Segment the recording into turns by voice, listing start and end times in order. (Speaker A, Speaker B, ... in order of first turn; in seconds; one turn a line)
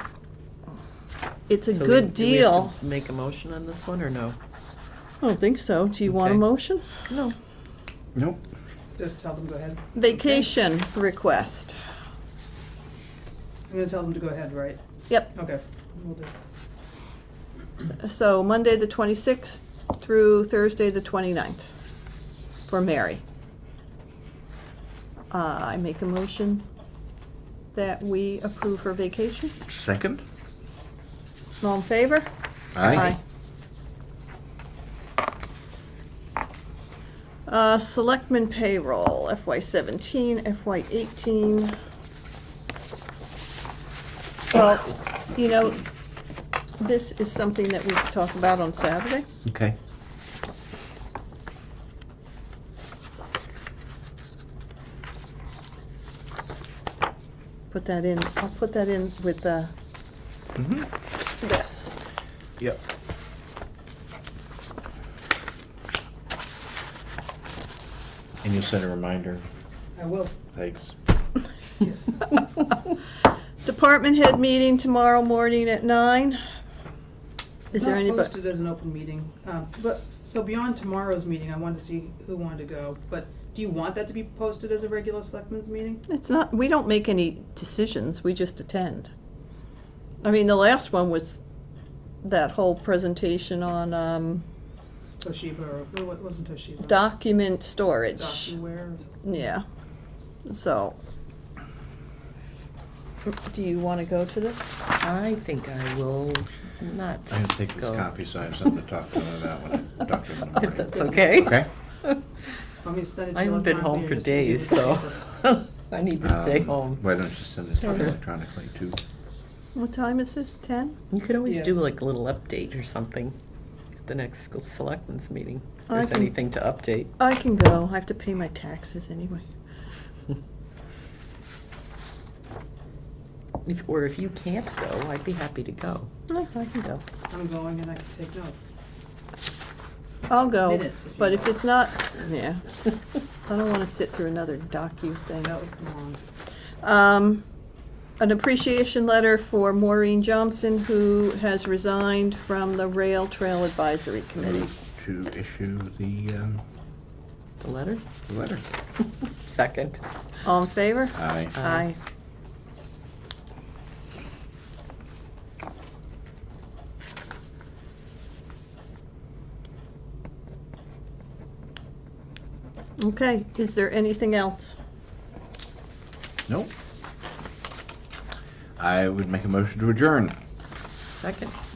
Speaker A: 1.5-2.8
Speaker B: 1.7-4.4
Speaker A: 5.2-6.8
Speaker B: 6.1-6.4
Speaker B: 7.1-7.3
Speaker C: 8.1-8.4
Speaker D: 8.9-10.5
Speaker A: 9.9-11.8
Speaker D: 13.7-14.8
Speaker A: 15.1-15.3
Speaker D: 15.3-16.3
Speaker A: 17.9-21.7
Speaker A: 22.7-23.2
Speaker A: 25.3-26.6
Speaker A: 27.7-29.5
Speaker C: 29.7-30.2
Speaker A: 31.6-32.3
Speaker C: 32.7-33.1
Speaker A: 32.8-33.2
Speaker A: 37.5-41.8
Speaker A: 44.5-45.8
Speaker A: 46.8-49.3
Speaker C: 49.4-49.8
Speaker A: 57.7-59.7
Speaker C: 60.5-60.9
Speaker A: 61.4-61.9
Speaker C: 68.4-69.4
Speaker D: 70.0-70.4
Speaker C: 70.5-70.9
Speaker D: 71.8-72.4
Speaker A: 73.6-76.4
Speaker D: 77.7-86.0
Speaker A: 77.7-78.3
Speaker A: 86.1-89.1
Speaker A: 90.2-91.4
Speaker A: 92.2-94.5
Speaker D: 95.2-97.0
Speaker A: 96.8-98.6
Speaker D: 98.1-99.4
Speaker A: 99.2-99.6
Speaker A: 100.5-101.0
Speaker A: 103.2-104.8
Speaker B: 105.0-108.1
Speaker C: 107.3-111.7
Speaker B: 110.5-112.2
Speaker D: 111.0-111.2
Speaker D: 112.8-115.3
Speaker B: 113.3-117.0
Speaker C: 116.2-119.0
Speaker A: 119.7-121.0
Speaker B: 121.1-123.3
Speaker D: 121.5-121.8
Speaker B: 124.0-127.1
Speaker A: 125.9-126.3
Speaker A: 127.2-129.5
Speaker B: 133.6-136.1
Speaker A: 136.3-137.0
Speaker D: 137.3-138.7
Speaker A: 140.3-142.6
Speaker D: 140.6-141.5
Speaker A: 143.4-145.5
Speaker D: 145.4-146.2
Speaker A: 146.8-147.4
Speaker A: 148.2-154.7
Speaker C: 154.4-156.6
Speaker B: 157.6-158.0
Speaker C: 158.3-158.6
Speaker B: 159.2-160.0
Speaker A: 160.4-162.0
Speaker C: 161.1-161.5
Speaker B: 161.6-161.8
Speaker A: 173.0-174.8
Speaker C: 178.8-180.3
Speaker B: 181.1-181.5